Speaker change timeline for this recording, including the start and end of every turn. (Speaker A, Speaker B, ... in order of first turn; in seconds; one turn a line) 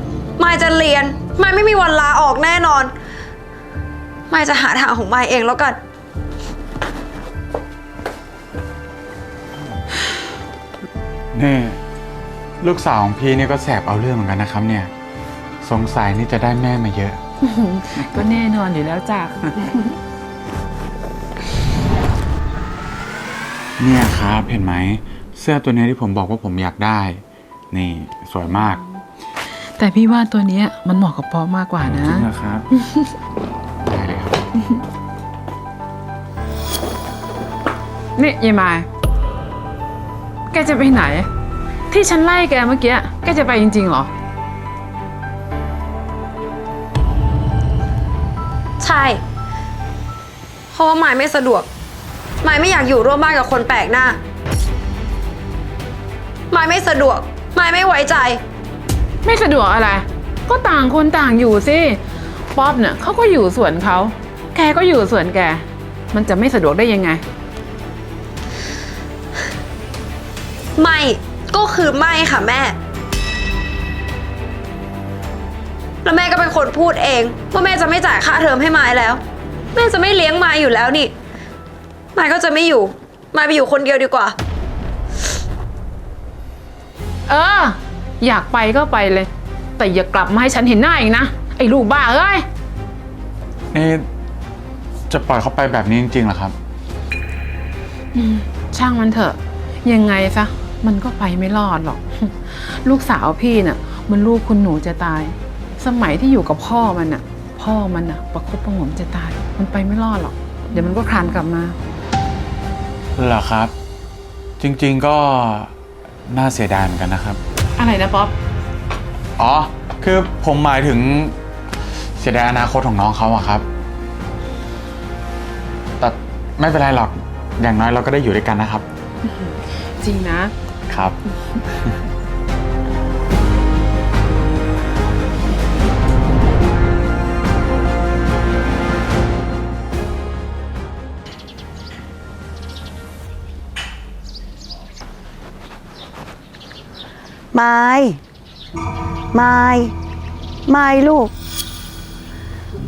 Speaker A: 0.4-2.9
Speaker A: 4.3-5.8
Speaker B: 11.3-11.8
Speaker B: 12.6-14.9
Speaker B: 15.6-17.2
Speaker C: 17.4-20.0
Speaker B: 23.8-27.2
Speaker B: 27.7-28.8
Speaker C: 29.7-32.3
Speaker B: 31.9-32.7
Speaker C: 32.8-33.1
Speaker B: 33.8-34.4
Speaker C: 38.2-38.9
Speaker C: 40.5-41.3
Speaker C: 41.9-44.1
Speaker A: 48.8-49.2
Speaker A: 50.7-51.7
Speaker A: 52.4-54.2
Speaker A: 56.5-58.4
Speaker C: 59.2-62.0
Speaker C: 62.5-67.2
Speaker A: 70.8-72.8
Speaker A: 76.0-79.2
Speaker A: 79.7-81.1
Speaker A: 82.2-84.3
Speaker C: 87.3-92.5
Speaker B: 93.7-94.0
Speaker B: 95.1-96.5
Speaker C: 98.1-111.8
Speaker B: 113.2-113.7
Speaker B: 114.6-115.7
Speaker B: 116.3-117.4
Speaker C: 117.8-118.3
Speaker B: 119.4-121.4
Speaker B: 122.2-123.7
Speaker B: 126.0-128.8
Speaker C: 129.2-130.5
Speaker B: 130.9-131.2
Speaker D: 147.5-148.2
Speaker D: 149.3-149.9
Speaker D: 150.7-151.3